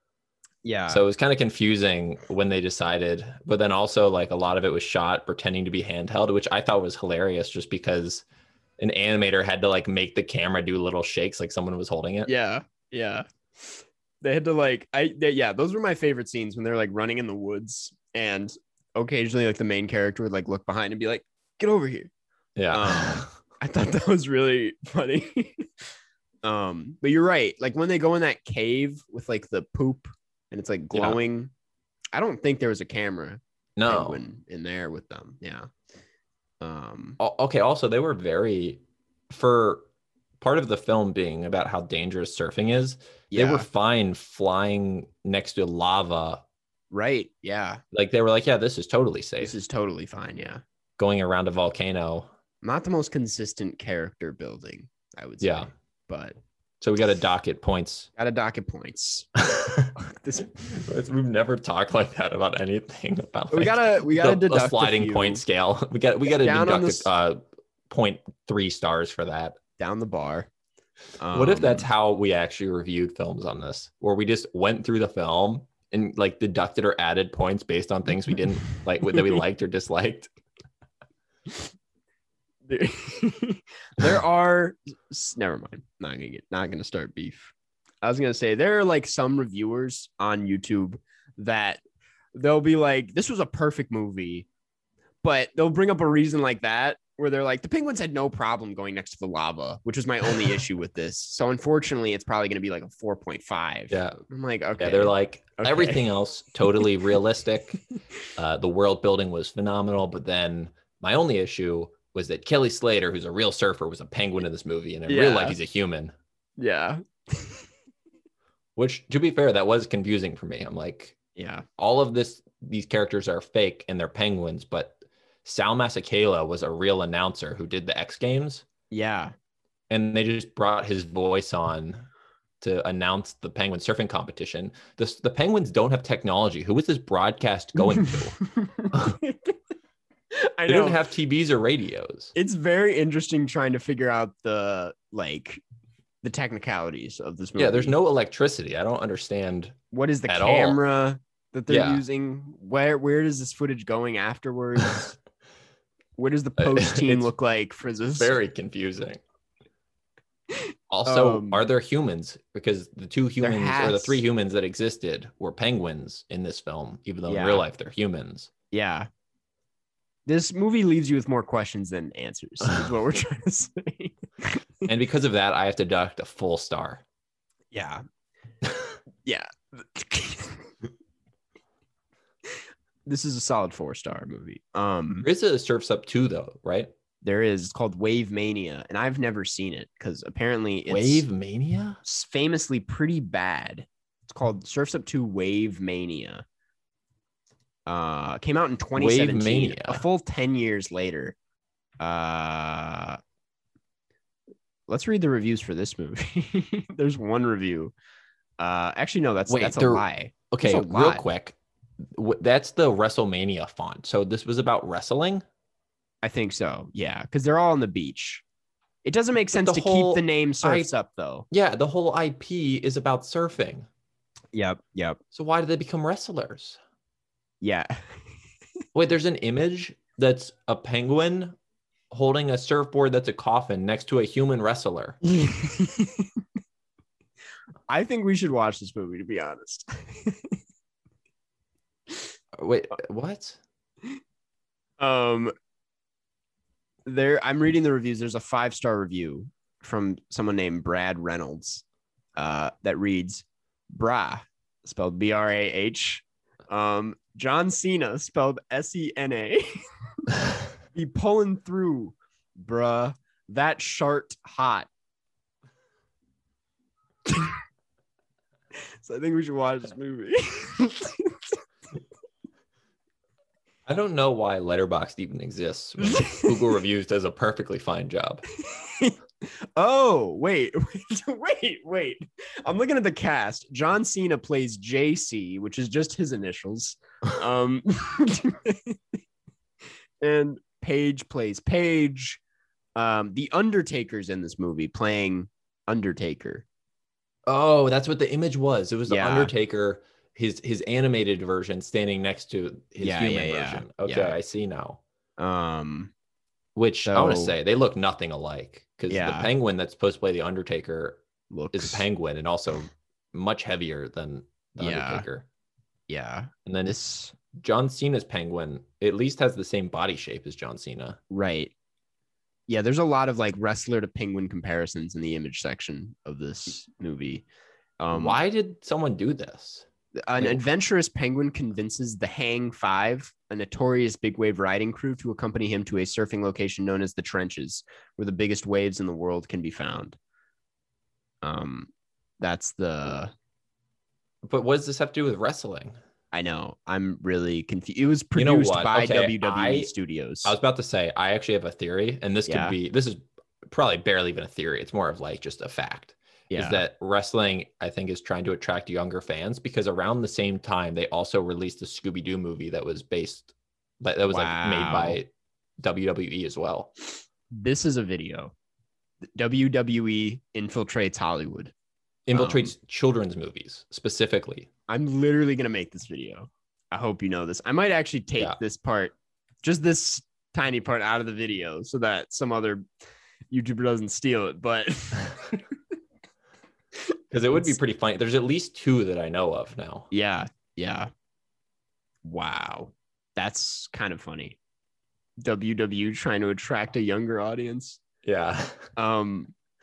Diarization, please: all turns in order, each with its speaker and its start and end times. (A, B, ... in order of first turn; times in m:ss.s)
0:00.6-0:01.0 A
0:00.9-0:08.2 B
0:08.8-0:12.3 B
0:12.3-0:22.1 A
0:22.6-0:23.3 B
0:22.7-0:25.7 A
0:26.4-0:31.5 A
0:30.9-0:31.2 B
0:32.1-0:35.7 A
0:33.8-0:34.2 B
0:36.6-0:37.2 A
0:37.2-0:39.9 B
0:40.4-0:46.4 B
0:43.3-0:43.7 A
0:46.9-0:47.8 A
0:47.9-0:49.6 B
0:49.4-0:50.6 A
0:51.0-0:52.3 B
0:52.6-0:56.4 A
0:55.4-0:55.7 B
0:56.8-0:58.1 B
0:58.2-0:59.3 A
0:59.4-0:59.9 B
1:00.0-1:00.6 A
1:00.6-1:09.6 B
1:03.5-1:05.4 A
1:06.3-1:07.1 A
1:09.8-1:10.5 A
1:11.2-1:11.9 A
1:11.3-1:20.3 B
1:22.7-1:31.8 A
1:32.3-1:34.5 A
1:35.2-1:46.1 A
1:43.9-1:44.2 B
1:44.8-1:47.8 B
1:48.4-1:56.1 B
1:55.1-1:55.6 A
1:56.6-1:57.6 A
1:58.8-2:01.2 B
2:01.4-2:01.6 A
2:01.8-2:08.6 B
2:08.9-2:09.3 A
2:09.9-2:12.1 B
2:12.6-2:18.4 B
2:18.0-2:19.5 A
2:20.3-2:21.0 A
2:20.7-2:22.3 B
2:22.4-2:25.6 A
2:26.2-2:28.0 A
2:27.6-2:29.8 B
2:29.9-2:35.2 A
2:30.3-2:30.8 B
2:31.7-2:32.0 B
2:36.2-2:38.3 A
2:36.6-2:37.3 B
2:38.2-2:39.2 B
2:40.5-2:41.6 A
2:40.9-2:48.5 B
2:43.4-2:44.2 A
2:47.3-2:47.6 A
2:48.7-2:49.1 A
2:50.3-2:54.9 A
2:54.9-2:57.0 B
2:57.7-2:58.0 A
2:59.2-3:00.7 A
3:03.1-3:05.3 A
3:05.2-3:06.9 B
3:07.2-3:11.2 A
3:10.9-3:12.0 B
3:12.0-3:16.4 A
3:17.9-3:21.4 A
3:19.0-3:20.0 B
3:22.0-3:23.2 A
3:24.9-3:27.9 A
3:28.6-3:31.2 A
3:29.5-3:31.6 B
3:32.2-3:35.4 B
3:36.2-3:38.4 A
3:39.0-3:41.5 A
3:39.5-3:40.9 B
3:41.5-3:43.9 B
3:44.5-3:45.2 A
3:45.3-3:46.8 B
3:47.6-3:48.0 A
3:49.0-3:51.6 B
3:52.1-3:55.2 B
3:55.2-3:56.3 A
3:57.9-4:00.5 A
4:02.6-4:03.6 B
4:05.0-4:05.5 A
4:07.1-4:11.8 A
4:12.4-4:19.8 A
4:20.9-4:24.9 A
4:27.3-4:27.6 A
4:29.0-4:31.5 A
4:33.9-4:38.4 B
4:36.0-4:36.8 A
4:38.6-4:49.0 A
4:50.2-4:52.4 A
4:53.0-4:56.7 A
4:57.5-5:05.0 B
4:59.1-4:59.5 A
5:03.0-5:04.4 A
5:05.4-5:06.1 A
5:06.8-5:11.2 B
5:07.1-5:07.6 A
5:09.1-5:09.5 A
5:11.5-5:12.1 A
5:11.7-5:15.5 B
5:14.8-5:15.3 A
5:16.1-5:17.4 A
5:16.7-5:21.2 B
5:21.3-5:21.7 A
5:22.7-5:27.4 A
5:28.0-5:28.4 A
5:28.1-5:29.9 B
5:30.2-5:40.2 A
5:41.4-5:43.3 A
5:44.4-5:46.0 B
5:46.3-5:50.6 A
5:48.4-5:49.9 B
5:50.4-6:06.9 B
5:52.5-5:52.8 A
5:56.5-5:56.8 A
6:04.3-6:05.2 A
6:07.5-6:08.5 A
6:09.4-6:11.7 A
6:12.3-6:14.7 B
6:12.3-6:12.7 A
6:14.9-6:22.8 A
6:23.5-6:25.6 A
6:27.3-6:30.1 B
6:30.1-6:31.1 A
6:32.2-6:34.6 A
6:35.4-6:38.0 A
6:38.2-6:38.9 B
6:39.0-6:39.5 A